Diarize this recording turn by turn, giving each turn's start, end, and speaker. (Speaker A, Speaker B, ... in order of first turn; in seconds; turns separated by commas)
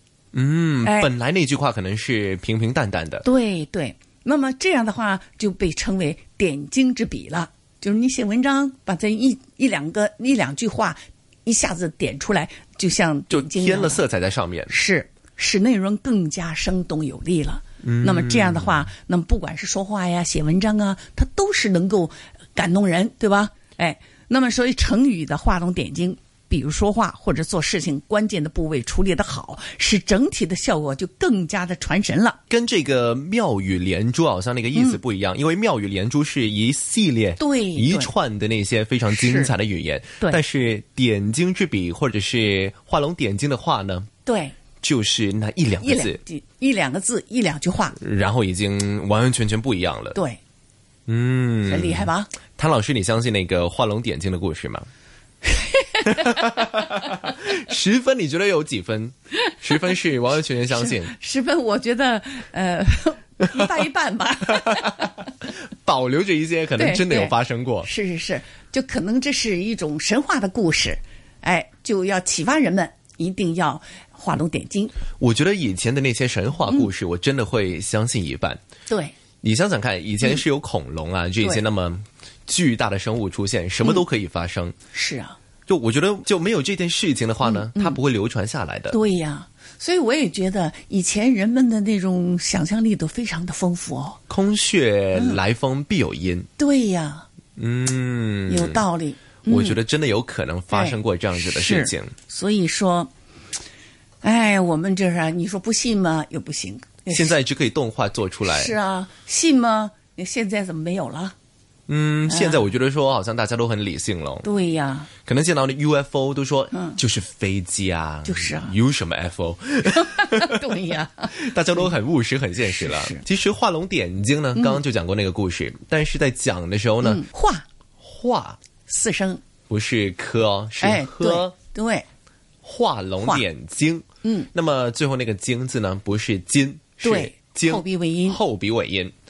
Speaker A: 0.3-3.2, Speaker B: 0.8-1.1, Speaker B: 3.2-14.0, Speaker A: 13.3-14.7, Speaker B: 14.7-32.4, Speaker A: 17.8-18.8, Speaker A: 32.5-44.1, Speaker B: 34.7-35.0, Speaker B: 37.4-38.1, Speaker B: 39.1-39.5, Speaker B: 44.2-44.6, Speaker A: 44.8-46.2, Speaker B: 45.8-48.0, Speaker A: 48.0-50.2, Speaker B: 50.1-50.4, Speaker A: 51.1-54.9, Speaker B: 51.6-52.3, Speaker B: 55.4-56.6, Speaker A: 56.0-61.1, Speaker B: 60.7-65.2, Speaker A: 64.7-67.9, Speaker B: 66.8-74.9, Speaker A: 75.2-78.6, Speaker B: 78.9-79.2, Speaker A: 79.4-84.7, Speaker B: 84.9-85.4, Speaker A: 85.7-89.0, Speaker B: 87.4-88.0, Speaker B: 88.9-94.2, Speaker A: 94.3-96.5, Speaker B: 95.1-95.4, Speaker B: 96.6-97.2, Speaker A: 97.6-98.8, Speaker B: 98.5-99.8, Speaker A: 99.5-102.1, Speaker B: 100.7-103.1, Speaker B: 104.2-107.3, Speaker A: 107.1-108.7, Speaker B: 108.5-111.3, Speaker A: 111.9-114.5, Speaker B: 112.3-112.7, Speaker B: 114.4-115.1, Speaker A: 115.2-120.7, Speaker B: 116.7-117.0, Speaker B: 118.2-118.8, Speaker B: 119.9-121.9, Speaker A: 121.3-127.2, Speaker B: 122.7-123.2, Speaker B: 124.5-124.8, Speaker B: 127.0-127.6, Speaker A: 128.0-128.6, Speaker B: 128.8-129.4, Speaker A: 129.7-131.5, Speaker B: 130.8-132.1, Speaker A: 132.6-139.1, Speaker B: 133.2-133.4, Speaker B: 134.2-134.5, Speaker B: 137.0-138.4